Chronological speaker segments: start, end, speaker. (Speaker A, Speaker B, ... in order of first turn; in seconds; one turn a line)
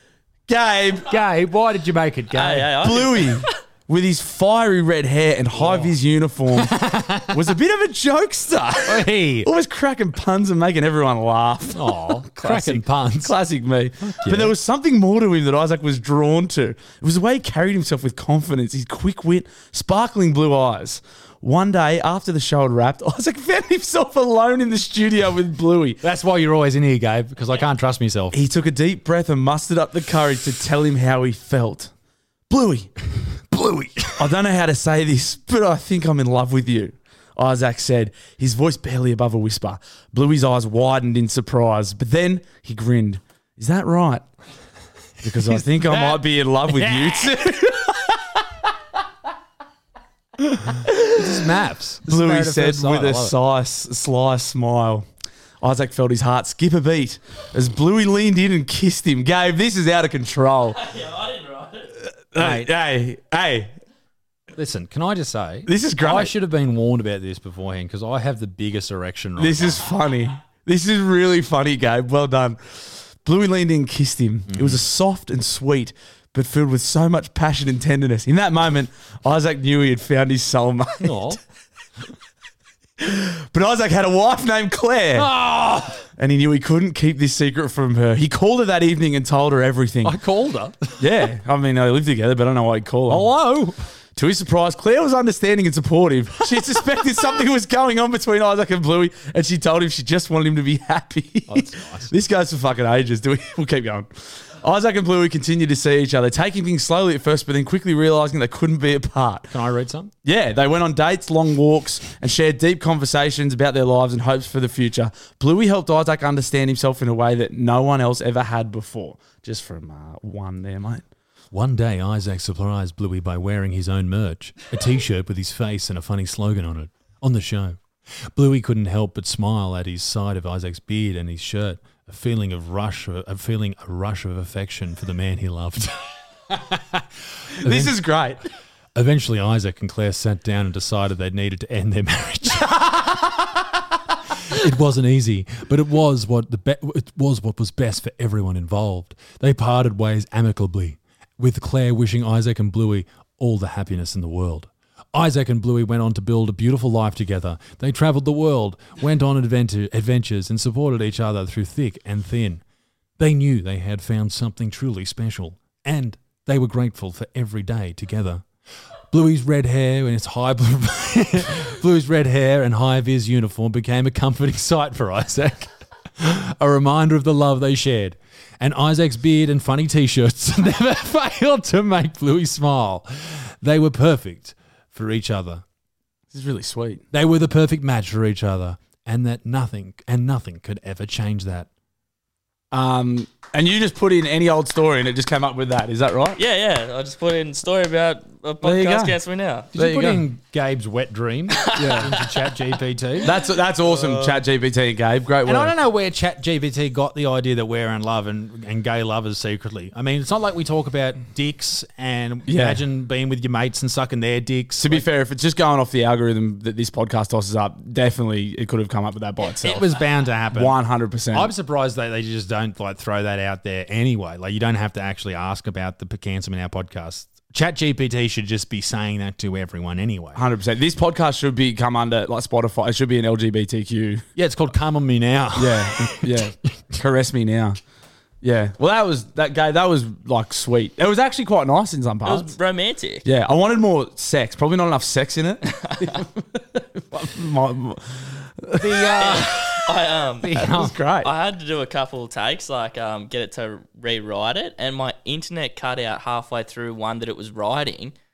Speaker A: 0.5-1.1
Speaker B: 1.1-2.9
Speaker C: 2.3-3.5
Speaker A: 2.8-26.0
Speaker B: 5.5-5.9
Speaker B: 6.5-7.4
Speaker B: 8.8-9.5
Speaker B: 11.7-13.3
Speaker B: 14.0-14.5
Speaker B: 26.0-28.4
Speaker A: 28.3-31.9
Speaker A: 32.5-32.9
Speaker B: 33.5-34.3
Speaker A: 34.2-44.2
Speaker A: 45.2-48.4
Speaker B: 45.2-47.4
Speaker A: 50.4-51.4
Speaker B: 51.1-53.4
Speaker A: 52.0-55.1
Speaker A: 55.6-60.8
Speaker C: 60.8-61.9
Speaker A: 62.0-63.8
Speaker B: 62.4-62.7
Speaker B: 64.5-69.8
Speaker A: 65.7-66.3
Speaker A: 69.4-81.4
Speaker B: 74.5-74.8
Speaker B: 81.0-81.4
Speaker A: 83.0-85.3
Speaker B: 85.2-86.0
Speaker A: 86.2-90.2
Speaker B: 90.0-91.0
Speaker A: 91.0-93.3
Speaker B: 93.1-93.8
Speaker A: 94.1-109.5
Speaker B: 101.5-102.1
Speaker B: 109.5-110.1
Speaker A: 110.2-121.0
Speaker B: 121.5-138.0
Speaker A: 137.6-138.4
Speaker B: 138.9-142.8
Speaker A: 142.6-143.5
Speaker B: 144.4-162.6
Speaker B: 163.2-168.4
Speaker B: 169.1-185.6
Speaker A: 186.3-187.0
Speaker B: 187.1-191.7
Speaker A: 192.7-196.4
Speaker C: 196.4-199.7
Speaker A: 198.6-199.2
Speaker A: 199.7-200.2
Speaker B: 199.7-203.3
Speaker C: 201.7-202.0
Speaker A: 201.7-202.1
Speaker A: 203.2-205.8
Speaker C: 203.3-204.4
Speaker B: 205.4-215.1
Speaker A: 212.4-212.8
Speaker A: 214.8-220.0
Speaker B: 219.6-220.8
Speaker A: 220.5-221.5
Speaker B: 221.3-230.4
Speaker A: 230.3-234.2
Speaker B: 234.3-236.5
Speaker A: 235.6-237.8
Speaker A: 238.4-242.5
Speaker C: 242.2-243.2
Speaker A: 243.2-249.6
Speaker B: 248.8-249.8
Speaker C: 249.2-250.6
Speaker B: 250.4-250.9
Speaker A: 250.5-251.3
Speaker C: 251.2-258.1